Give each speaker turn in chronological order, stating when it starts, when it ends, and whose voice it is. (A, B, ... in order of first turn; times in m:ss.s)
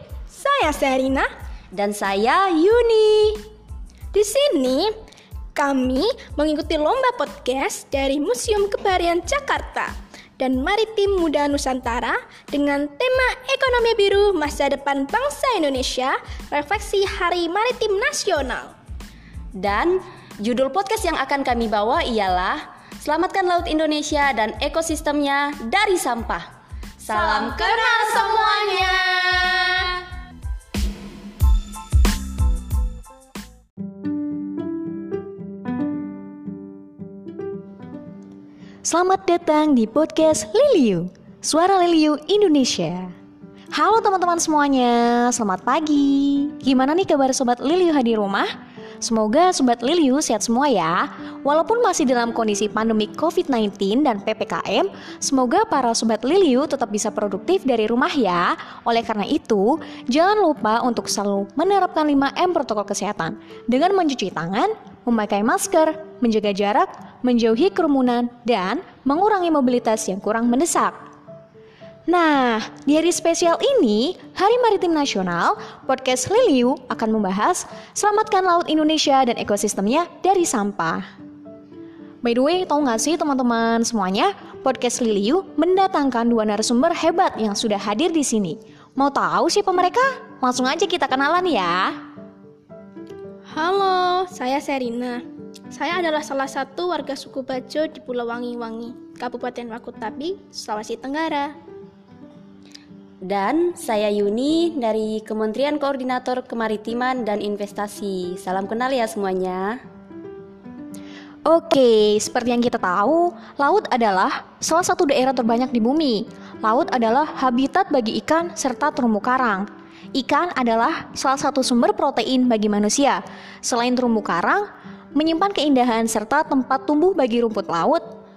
0:00.3-0:01.3 A
0:01.7-0:03.4 B
0:04.1-0:04.9 A
0:05.5-0:18.7 A
0:19.6-0:26.4 B
0:27.0-0:27.9 B
0:27.1-0:30.0 C
0:38.8-0:43.1 C
0:43.7-0:48.5 C
0:49.0-1:11.0 C
1:12.1-1:21.0 C
1:22.2-1:31.9 C
1:33.5-1:35.2 A
1:35.7-1:41.5 A
1:43.2-1:49.8 B
1:51.4-2:08.0 C